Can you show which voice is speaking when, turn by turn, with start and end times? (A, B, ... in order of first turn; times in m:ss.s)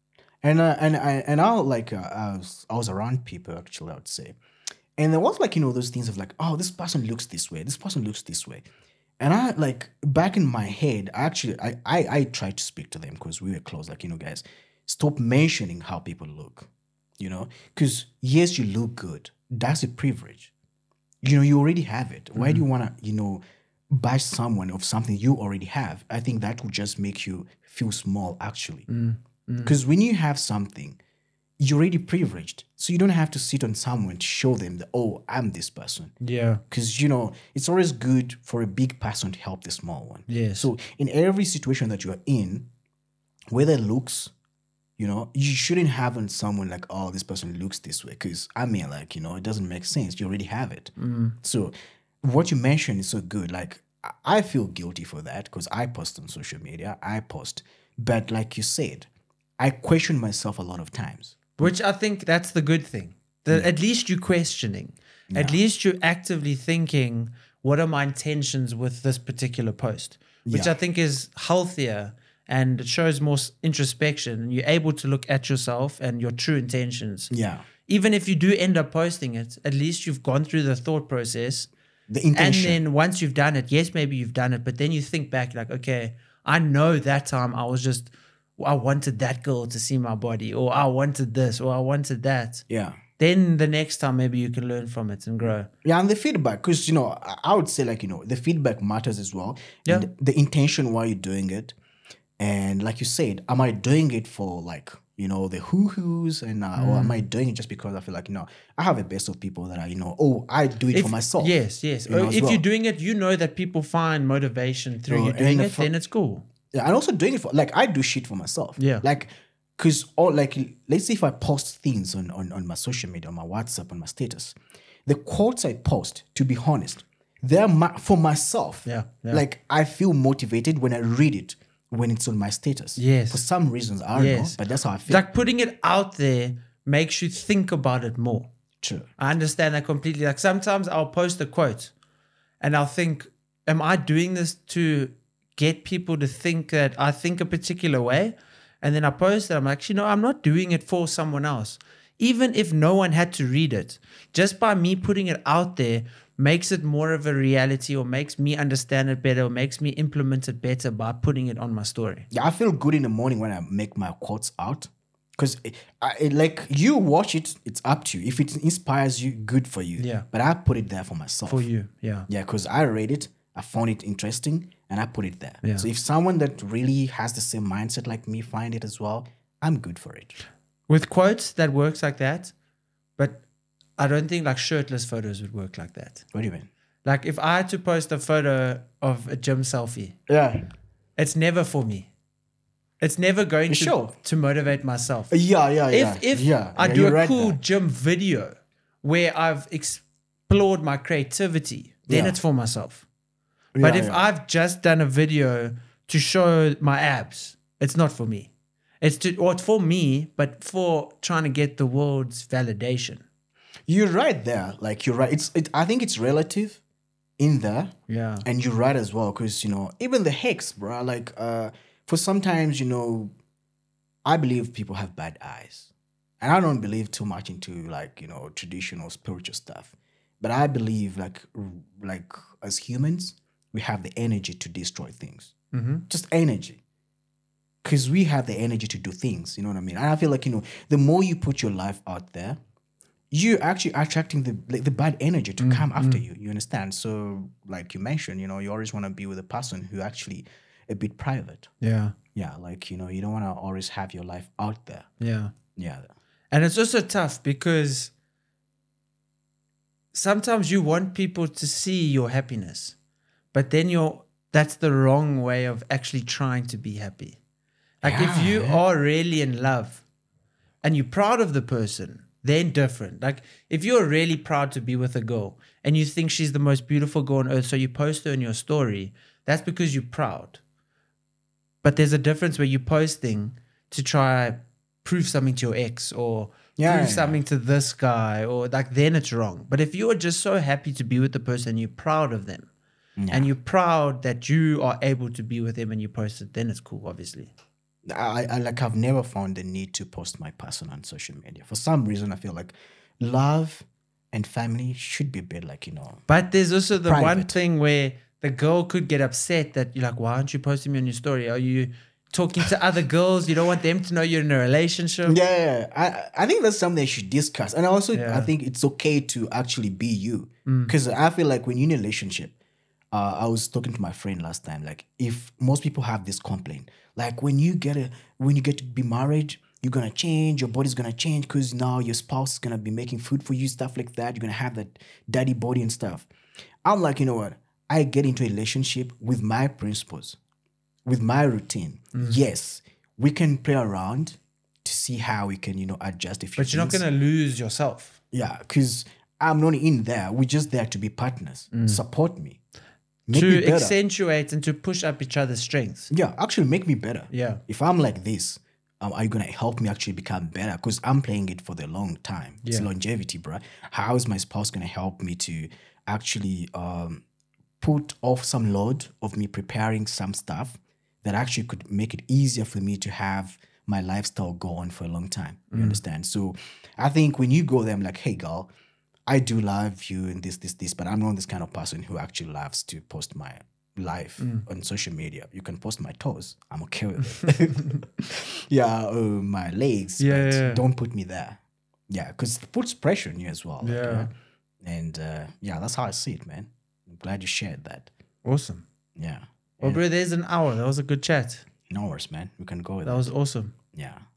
0:00.4-0:04.4 A
0:05.0-0:08.6 A
0:09.2-0:20.5 A
0:21.2-0:28.9 A
0:22.4-0:22.6 B
0:28.9-0:29.8 B
0:29.6-0:31.0 A
0:31.6-0:36.1 A
0:36.2-0:36.6 B
0:36.7-0:42.7 A
0:40.3-0:40.7 B
0:43.5-0:44.3 A
0:45.0-1:01.7 A
0:51.0-0:51.4 B
1:01.6-1:17.3 B
1:05.3-1:05.6 A
1:10.5-1:10.7 A
1:17.3-1:17.7 A
1:17.9-1:21.7 B
1:22.1-1:22.8 A
1:22.3-1:32.6 B
1:32.7-1:33.0 A
1:33.2-1:35.7 B
1:35.8-1:41.8 A
1:42.4-1:51.5 A
1:46.8-1:47.2 B
1:50.9-1:56.5 B
1:52.1-1:52.6 A
1:55.1-1:55.9 A
1:56.7-2:15.3 A
1:58.8-1:59.0 B
2:08.9-2:09.4 B
2:13.0-2:13.4 B
2:14.2-2:18.5 B
2:18.8-2:19.1 A
2:19.2-2:21.9 B
2:22.6-2:42.3 B
2:42.3-2:51.7 A
2:50.0-2:50.3 B
2:51.5-2:52.3 B
2:52.3-3:00.4 A
2:55.6-2:55.9 B
3:00.9-3:02.5 B
3:03.2-3:03.4 B
3:04.0-3:06.2 B
3:06.3-3:06.7 A
3:07.0-3:10.2 B
3:10.3-3:10.6 A
3:11.2-3:12.1 B
3:13.0-3:15.3 B
3:13.7-3:14.0 A
3:15.3-3:17.6 A
3:15.9-3:23.0 B
3:22.1-3:22.4 A
3:23.8-3:24.2 A
3:23.8-3:33.2 B
3:33.9-3:36.8 A
3:37.4-3:43.3 A
3:38.1-3:38.4 B
3:44.2-3:55.5 A
3:55.7-3:56.0 B
3:56.1-3:56.8 A
3:57.8-4:02.6 A
4:03.3-4:11.7 A
4:05.6-4:06.2 B
4:11.8-4:12.2 B
4:12.4-4:15.1 A
4:15.2-4:15.5 B
4:15.8-4:16.1 A
4:16.5-4:18.1 B
4:20.1-4:23.0 B
4:23.5-4:27.4 B
4:28.0-4:30.0 B
4:28.0-4:28.8 A
4:30.8-4:40.6 B
4:41.8-4:52.7 B
4:46.8-4:47.4 A
4:53.2-4:53.5 A
4:53.3-4:57.5 B
4:58.0-5:06.2 A
5:06.3-5:15.4 B
5:07.0-5:07.6 A
5:15.3-5:22.6 A
5:18.1-5:18.5 B
5:20.7-5:20.9 B
5:23.1-5:36.3 A
5:36.8-5:40.4 A
5:41.0-5:47.0 A
5:42.1-5:42.4 B
5:46.6-5:48.2 B
5:48.3-5:52.6 A
5:51.7-5:52.0 B
5:53.3-5:54.0 A
5:53.3-5:56.1 B
5:56.1-6:07.2 A
5:57.3-5:57.6 B
6:07.8-6:18.7 A
6:15.7-6:16.0 B
6:19.3-6:34.3 A
6:24.4-6:24.6 B
6:27.4-6:27.9 B
6:30.2-6:30.8 B
6:33.8-6:34.3 B
6:34.8-6:38.1 A
6:38.4-6:38.8 B
6:39.2-6:40.0 A
6:39.8-6:41.7 B
6:41.9-6:43.3 A
6:43.0-6:43.8 B
6:43.9-6:44.2 A